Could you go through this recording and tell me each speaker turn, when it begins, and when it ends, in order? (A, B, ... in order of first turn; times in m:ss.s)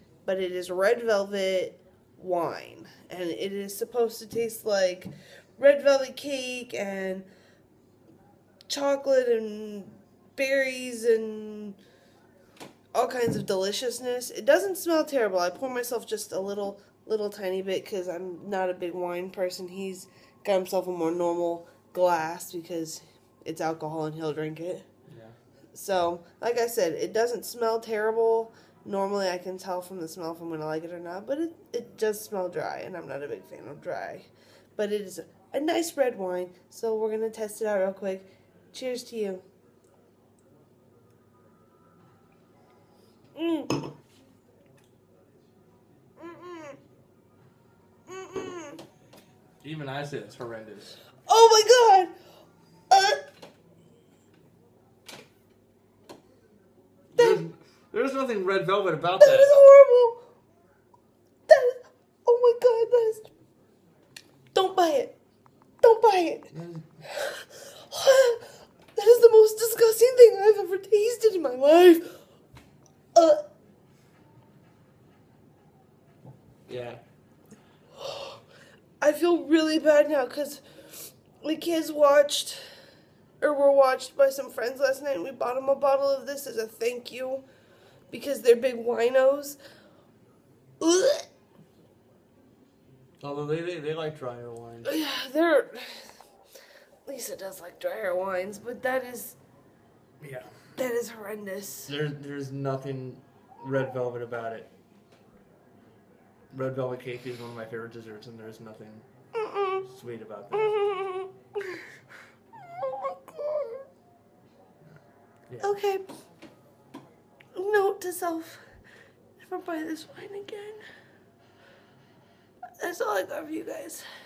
0:00.2-0:07.2 A
0:08.7-0:11.8 A
0:12.9-0:24.8 A
0:25.1-0:25.4 B
0:25.7-0:39.4 A
0:43.4-0:43.8 A
0:46.2-0:46.8 A
0:48.1-0:48.8 A
0:49.6-0:51.0 B
0:51.3-0:52.1 A
0:52.9-0:53.2 A
0:57.1-0:59.5 B
0:57.1-0:57.4 A
0:59.2-1:00.2 A
1:01.5-1:03.3 A
1:04.5-1:05.2 A
1:05.8-1:06.5 A
1:06.5-1:06.9 B
1:07.0-1:12.1 A
1:13.1-1:13.4 A
1:16.7-1:17.0 B
1:18.0-1:18.4 A
1:19.0-1:20.6 A
1:21.4-1:22.6 A
1:23.4-1:27.4 A
1:28.1-1:29.6 A
1:30.8-1:31.3 A
1:33.2-1:35.0 B
1:34.8-1:36.1 A
1:37.0-1:39.4 A
1:40.2-1:40.5 B
1:40.8-1:41.9 A
1:41.9-1:44.7 B
1:46.5-1:49.0 B
1:49.3-1:49.8 A
1:49.9-1:50.8 B
1:50.5-1:51.8 A
1:52.7-1:53.8 A
1:55.5-1:55.8 B
1:55.6-1:56.0 A
1:57.6-1:58.6 A
1:59.4-2:00.8 A
2:02.8-2:04.0 A